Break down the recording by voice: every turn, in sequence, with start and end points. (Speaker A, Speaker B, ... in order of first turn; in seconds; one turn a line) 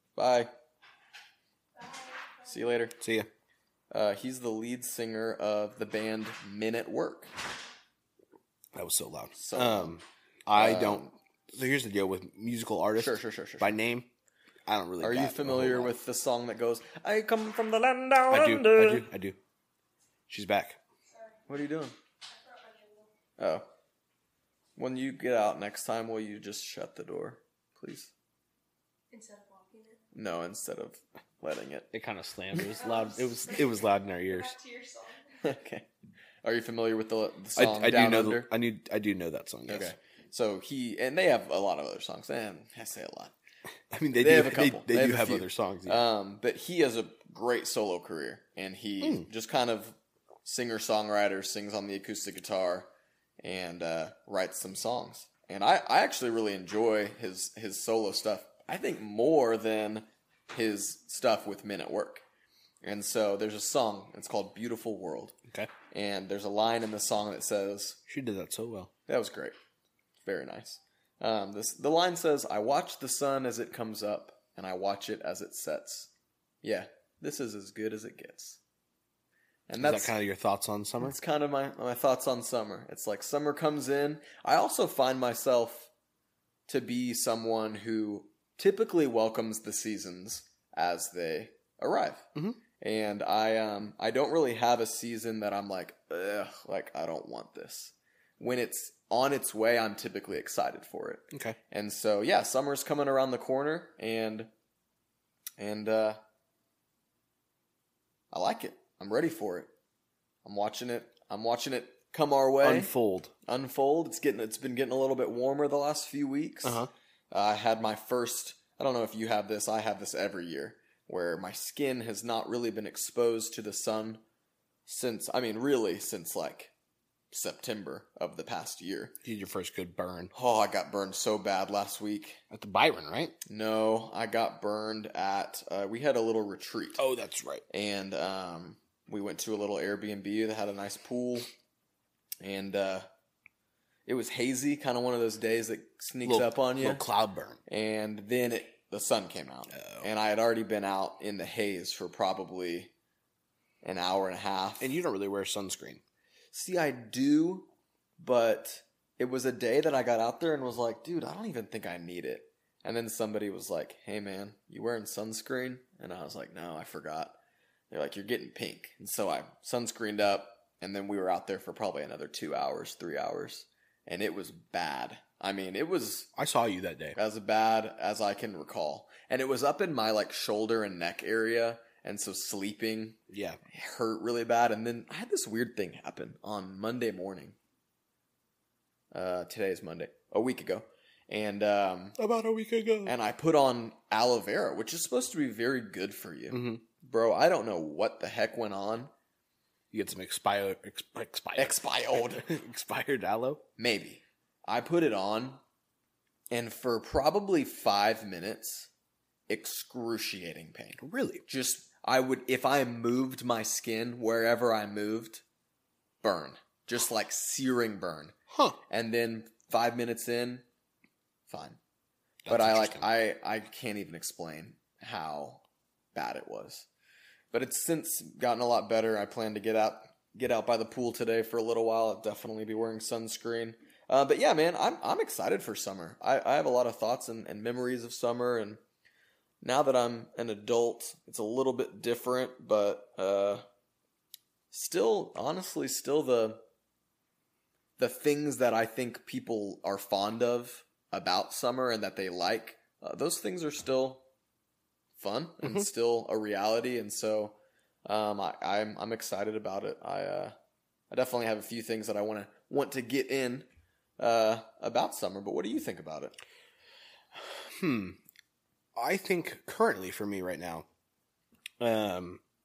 Speaker A: 0.1-0.5
Speaker B: 1.7-2.8
Speaker A: 2.5-2.9
Speaker C: 3.0-3.3
Speaker A: 3.9-7.3
Speaker C: 8.7-14.1
Speaker A: 9.3-9.9
Speaker A: 10.5-11.1
Speaker A: 12.9-13.7
Speaker C: 14.7-15.9
Speaker A: 15.0-19.1
Speaker C: 18.3-19.4
Speaker C: 20.3-20.8
Speaker B: 21.1-21.4
Speaker A: 21.5-21.9
Speaker B: 22.2-23.1
Speaker A: 23.4-23.6
Speaker A: 24.8-28.1
Speaker B: 29.1-30.0
Speaker A: 30.1-31.9
Speaker C: 31.9-34.5
Speaker B: 32.6-35.4
Speaker A: 35.4-35.9
Speaker A: 36.4-38.5
Speaker C: 37.5-39.9
Speaker A: 39.7-43.3
Speaker C: 43.9-46.0
Speaker A: 44.1-52.9
Speaker C: 49.0-49.3
Speaker A: 53.4-62.2
Speaker A: 62.8-65.3
Speaker A: 65.9-68.0
Speaker C: 68.1-68.9
Speaker A: 69.1-69.5
Speaker A: 70.2-76.1
Speaker A: 76.6-78.6
Speaker A: 79.7-80.1
Speaker C: 79.8-81.2
Speaker A: 81.0-85.9
Speaker A: 86.7-92.3
Speaker A: 92.8-104.5
Speaker C: 101.3-101.6
Speaker A: 105.6-106.2
Speaker A: 108.3-109.7
Speaker A: 110.4-112.9
Speaker C: 112.6-113.3
Speaker A: 113.5-124.2
Speaker C: 116.6-116.9
Speaker A: 124.9-126.7
Speaker A: 127.3-129.1
Speaker C: 129.2-130.3
Speaker A: 130.3-132.4
Speaker C: 132.5-133.4
Speaker A: 133.4-137.0
Speaker C: 137.0-137.6
Speaker A: 137.7-141.5
Speaker A: 142.4-143.1
Speaker A: 144.1-147.0
Speaker C: 146.2-147.6
Speaker A: 147.7-152.9
Speaker C: 149.7-150.1
Speaker A: 153.8-154.9
Speaker C: 154.8-156.0
Speaker A: 156.5-167.3
Speaker A: 167.9-176.3
Speaker C: 176.3-177.2
Speaker A: 177.2-183.2
Speaker C: 183.3-183.6
Speaker A: 183.7-187.6
Speaker A: 189.1-192.2
Speaker C: 192.2-193.1
Speaker A: 193.0-199.1
Speaker C: 196.5-196.8
Speaker C: 199.9-203.6
Speaker A: 201.6-202.5
Speaker A: 203.8-205.6
Speaker A: 206.5-208.9
Speaker A: 209.5-215.4
Speaker C: 211.0-211.4
Speaker A: 216.2-218.3
Speaker C: 218.5-218.8
Speaker A: 218.9-220.6
Speaker A: 221.5-221.8
Speaker C: 222.4-223.1
Speaker A: 222.5-225.6
Speaker A: 226.1-226.9
Speaker A: 227.5-238.8
Speaker A: 239.6-243.6
Speaker A: 244.7-246.6
Speaker A: 248.0-254.2
Speaker A: 255.2-260.5
Speaker A: 261.1-263.7
Speaker A: 264.2-266.3
Speaker C: 267.4-268.2
Speaker C: 268.9-270.9
Speaker C: 271.8-272.4